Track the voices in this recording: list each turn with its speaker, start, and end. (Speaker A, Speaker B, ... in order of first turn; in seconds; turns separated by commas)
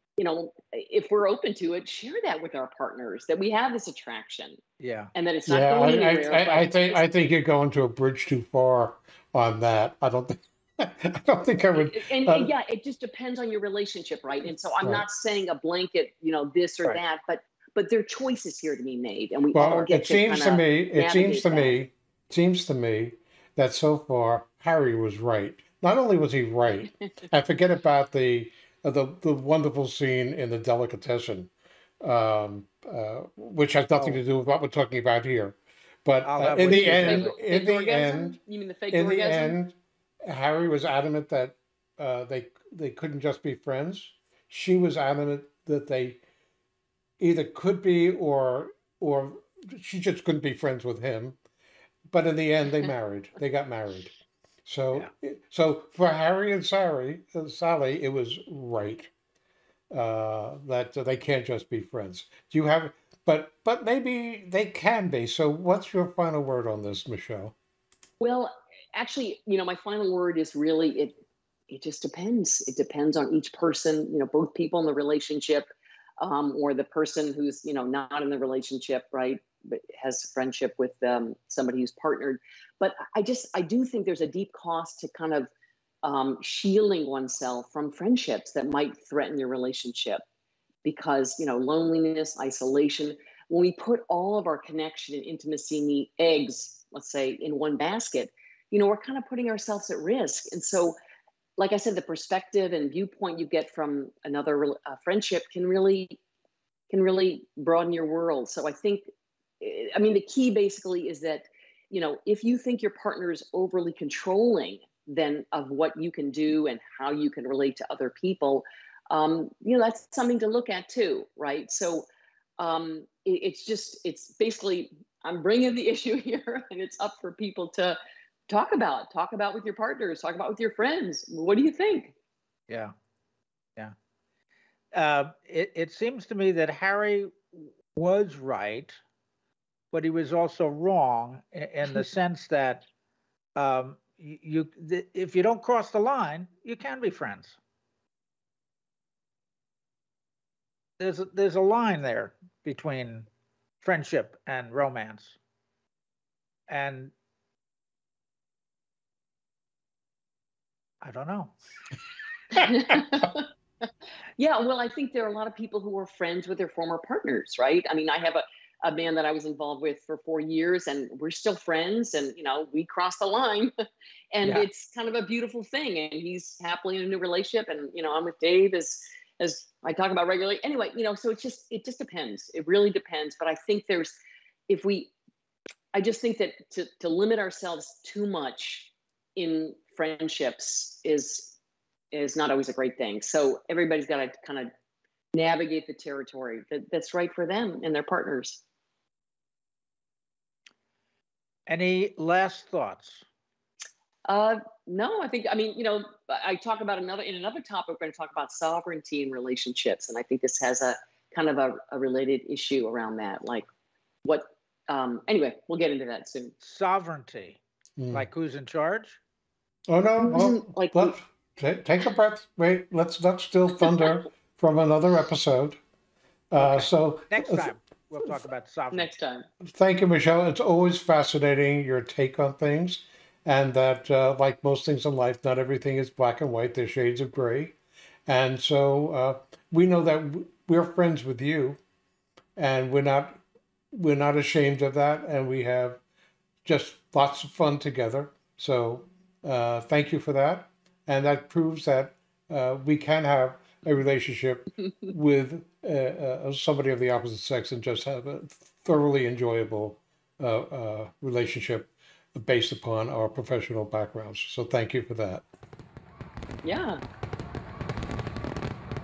Speaker A: 0.2-4.6, Speaker B: 4.8-5.1, Speaker A: 5.1-7.1, Speaker C: 5.5-12.5, Speaker A: 11.7-21.8, Speaker C: 19.5-38.4, Speaker B: 36.2-37.3, Speaker A: 36.7-39.6, Speaker C: 38.9-46.2, Speaker C: 47.2-51.4, Speaker C: 52.1-54.1, Speaker C: 54.6-59.1, Speaker C: 59.9-67.5, Speaker A: 68.2-71.2, Speaker A: 71.7-85.5, Speaker A: 86.0-90.2, Speaker A: 90.8-101.0, Speaker A: 101.6-106.2, Speaker A: 106.9-122.1, Speaker A: 122.6-132.1, Speaker B: 134.9-139.0, Speaker B: 139.9-142.8, Speaker B: 143.6-147.6, Speaker B: 151.0-153.3, Speaker B: 153.8-155.4, Speaker B: 156.7-157.1, Speaker B: 161.0-161.5, Speaker A: 162.5-163.4, Speaker A: 164.4-173.7, Speaker A: 174.3-184.2, Speaker A: 184.7-185.1, Speaker A: 185.9-191.6, Speaker A: 192.1-194.7, Speaker A: 195.3-198.6, Speaker B: 201.7-203.2, Speaker A: 204.3-213.7, Speaker A: 214.2-216.5, Speaker B: 216.6-217.6, Speaker C: 218.0-218.3, Speaker B: 218.1-219.2, Speaker C: 219.9-225.8, Speaker A: 220.2-221.2, Speaker C: 226.5-227.7, Speaker B: 226.6-229.1, Speaker A: 228.9-229.5, Speaker C: 229.6-237.8, Speaker C: 238.3-241.8, Speaker C: 242.6-243.4, Speaker C: 243.9-246.0, Speaker C: 246.6-265.4, Speaker A: 266.6-267.0